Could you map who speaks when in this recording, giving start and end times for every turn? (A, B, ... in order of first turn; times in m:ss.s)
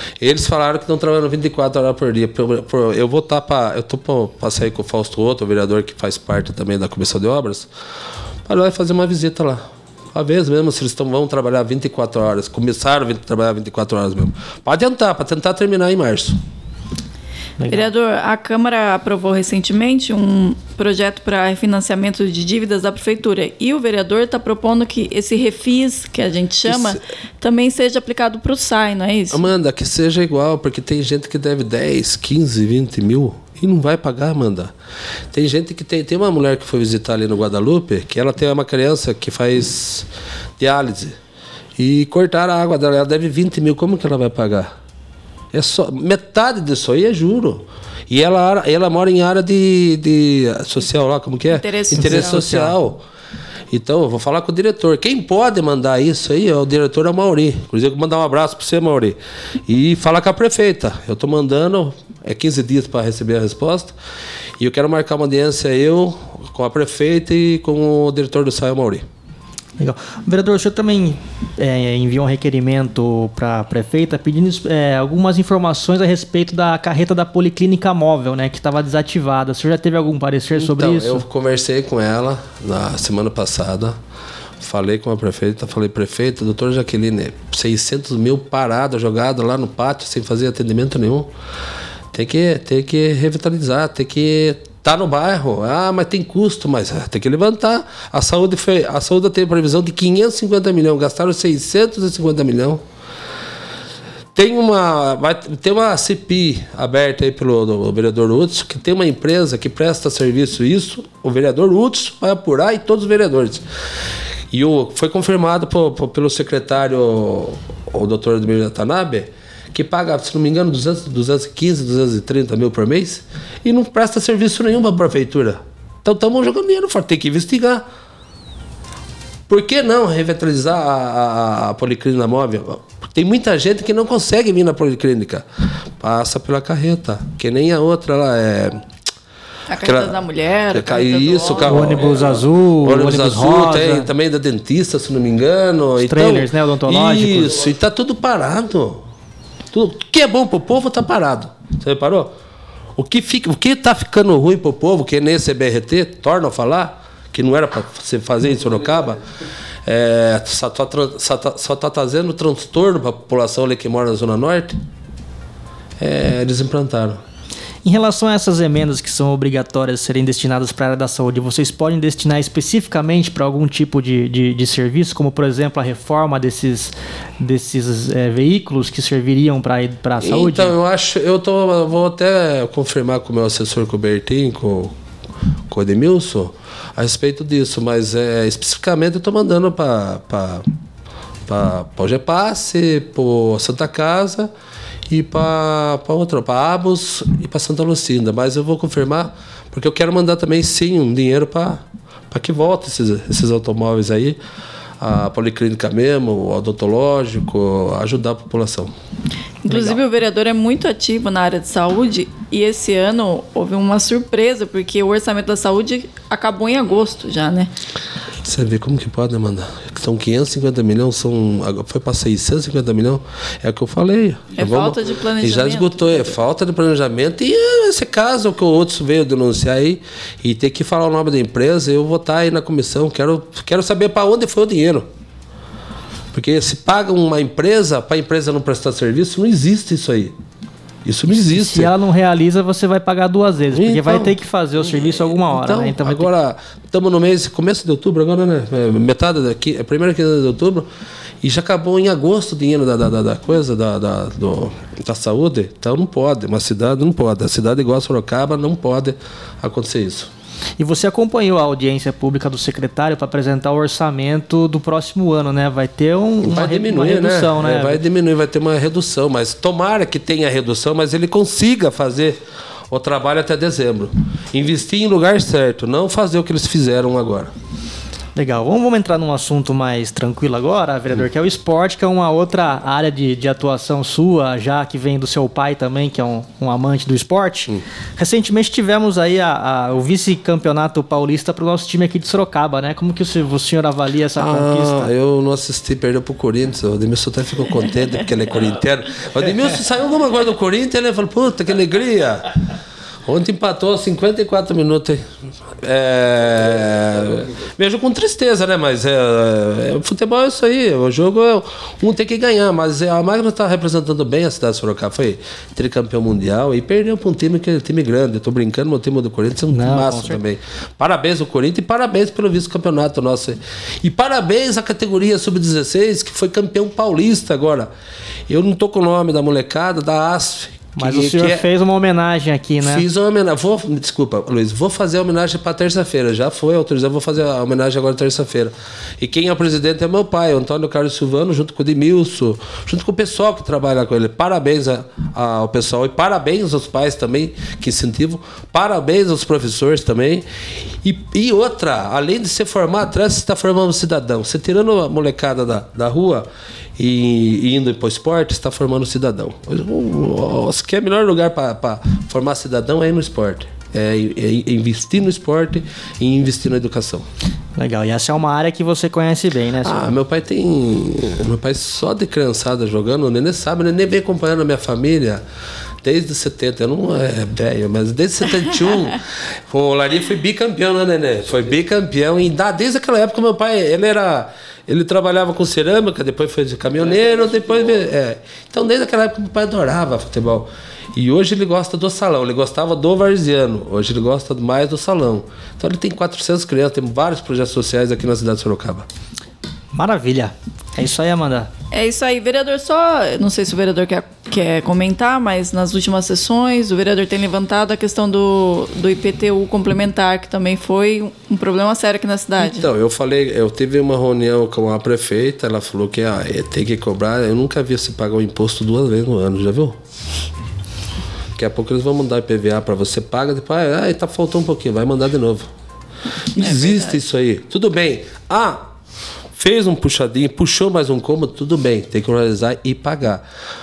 0:00.2-0:07.7 A
0:08.4-0:16.4 A
0:17.6-0:17.9 B
0:17.7-0:29.4 C
0:26.7-0:27.0 A
0:29.3-0:34.7 A
0:35.3-0:41.2 A
0:41.8-0:44.7 A
0:45.5-0:53.0 A
0:51.5-0:52.4 C
0:52.0-0:52.7 B
0:53.7-1:03.9 A
1:04.6-1:09.0 A
1:09.8-1:21.2 B
1:20.5-1:24.0 A
1:24.6-1:31.3 A
1:32.1-1:42.8 A
1:44.3-1:53.6 A
1:54.5-2:07.8 A
2:09.5-2:15.4 A
2:16.0-2:18.8 A
2:19.7-2:22.0 C
2:19.8-2:20.2 A
2:20.7-2:29.0 A
2:21.6-2:24.1 B
2:26.0-2:27.5 B
2:29.7-2:32.3 A
2:33.0-2:39.2 A
2:39.8-2:44.8 A
2:46.0-2:47.2 A
2:47.8-3:00.7 B
3:00.2-3:04.9 A
3:05.7-3:10.6 A
3:11.5-3:14.5 A
3:15.1-3:24.4 A
3:25.0-3:28.9 A
3:29.6-3:37.7 C
3:29.7-3:30.0 B
3:38.4-3:55.1 A
3:44.6-3:46.3 C
3:56.3-4:00.3 A
4:01.0-4:01.9 A
4:01.3-4:06.3 B
4:03.7-4:04.4 A
4:04.9-4:10.9 A
4:11.4-4:20.3 A
4:20.8-4:28.0 B
4:26.4-4:37.5 A
4:38.4-4:55.1 B
4:54.4-5:02.5 A
5:03.2-5:05.2 A
5:05.8-5:27.9 A
5:19.7-5:20.4 B
5:28.5-5:31.6 A
5:31.0-5:33.0 B
5:32.8-5:50.4 A
5:51.0-6:07.3 A
6:07.8-6:10.1 B
6:09.8-6:15.4 A
6:16.0-6:39.0 A
6:39.9-6:41.7 B
6:41.9-6:52.8 C
6:52.6-7:00.0 A
7:01.6-7:05.7 A
7:06.5-7:08.8 A
7:06.6-7:07.0 C
7:09.6-7:13.4 A